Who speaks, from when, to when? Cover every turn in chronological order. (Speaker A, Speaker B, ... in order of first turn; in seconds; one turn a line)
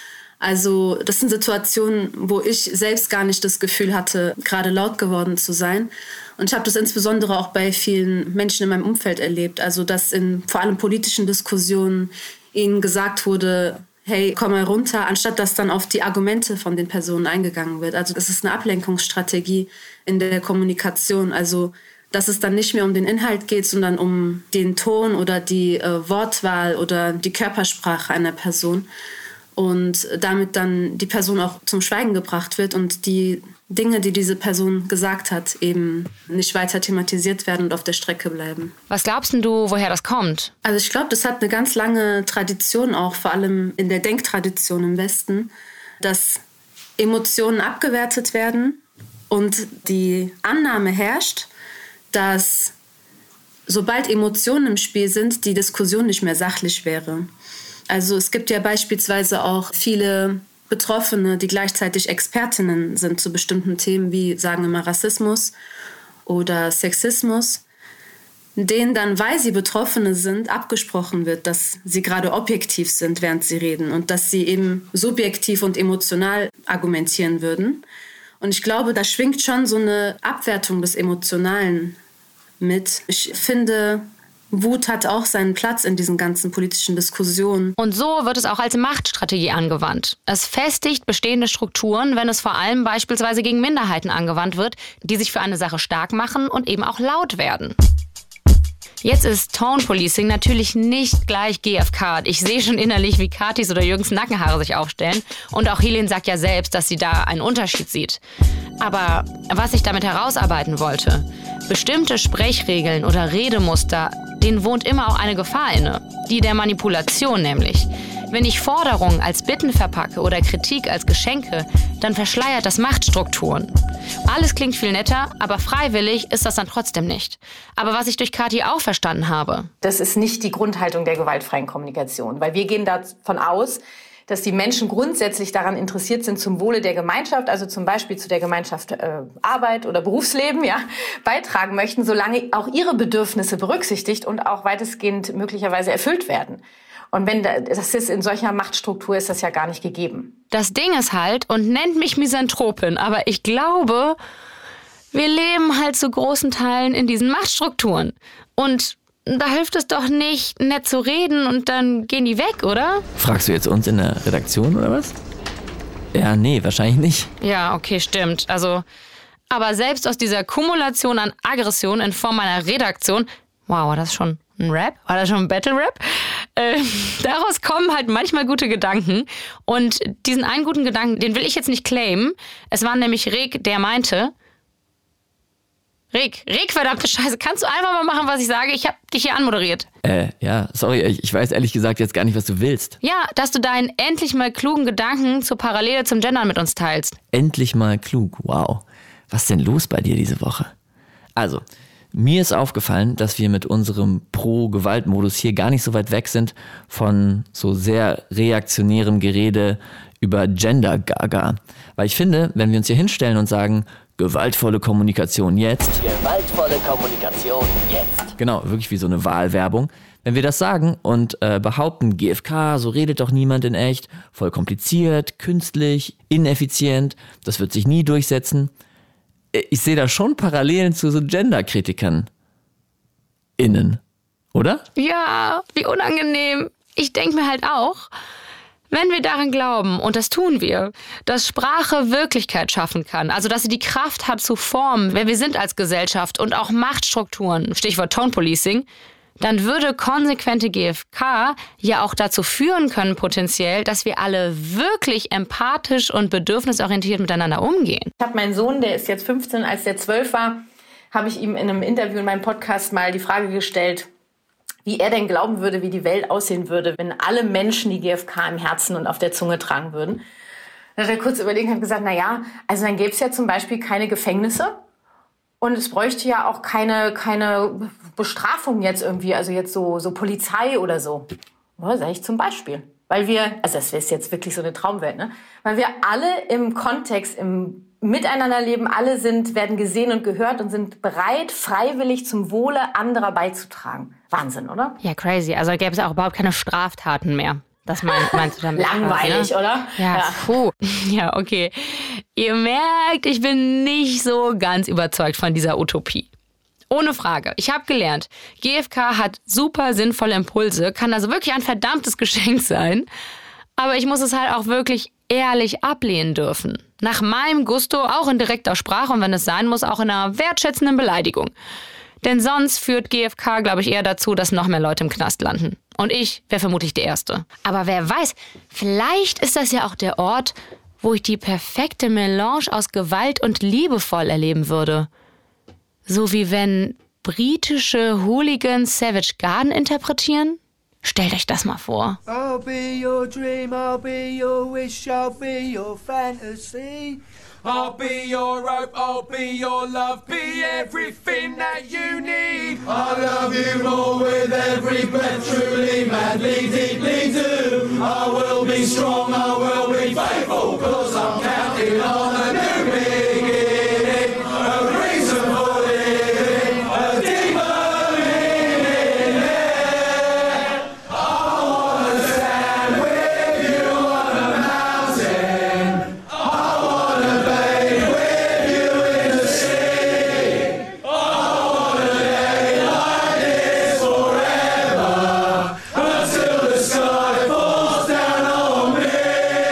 Speaker A: 0.4-28.9
Speaker A: 29.6-38.7
Speaker B: 38.9-40.5
Speaker A: 40.6-46.4
Speaker A: 47.0-51.5
Speaker A: 52.1-52.7
Speaker A: 53.7-57.3
Speaker A: 57.9-65.5
Speaker A: 66.3-67.6
Speaker A: 68.6-77.8
Speaker A: 78.4-82.0
Speaker A: 82.6-87.8
Speaker B: 87.8-97.8
Speaker B: 99.0-108.2
Speaker B: 108.8-123.7
Speaker B: 124.2-129.7
Speaker C: 129.8-150.3
Speaker B: 150.5-154.2
Speaker B: 155.1-163.1
Speaker D: 163.2-165.2
Speaker D: 166.1-167.3
Speaker B: 167.4-168.8
Speaker B: 169.5-184.3
Speaker B: 186.1-189.9
Speaker D: 190.0-193.0
Speaker B: 193.0-197.2
Speaker D: 197.3-200.7
Speaker D: 201.4-228.7
Speaker D: 229.5-232.3
Speaker D: 233.6-234.0
Speaker D: 234.5-234.8
Speaker B: 235.0-238.1
Speaker B: 238.9-248.9
Speaker B: 249.4-258.1
Speaker C: 258.2-264.1
Speaker C: 264.9-270.2
Speaker C: 271.0-274.8
Speaker C: 275.6-295.0
Speaker B: 295.0-306.3
Speaker C: 298.7-300.5
Speaker B: 306.9-313.1
Speaker B: 313.8-321.5
Speaker B: 322.2-335.1
Speaker B: 336.1-342.2
Speaker E: 342.3-368.6
Speaker E: 371.9-374.0
Speaker E: 374.8-375.4
Speaker E: 376.8-379.6
Speaker E: 386.0-389.1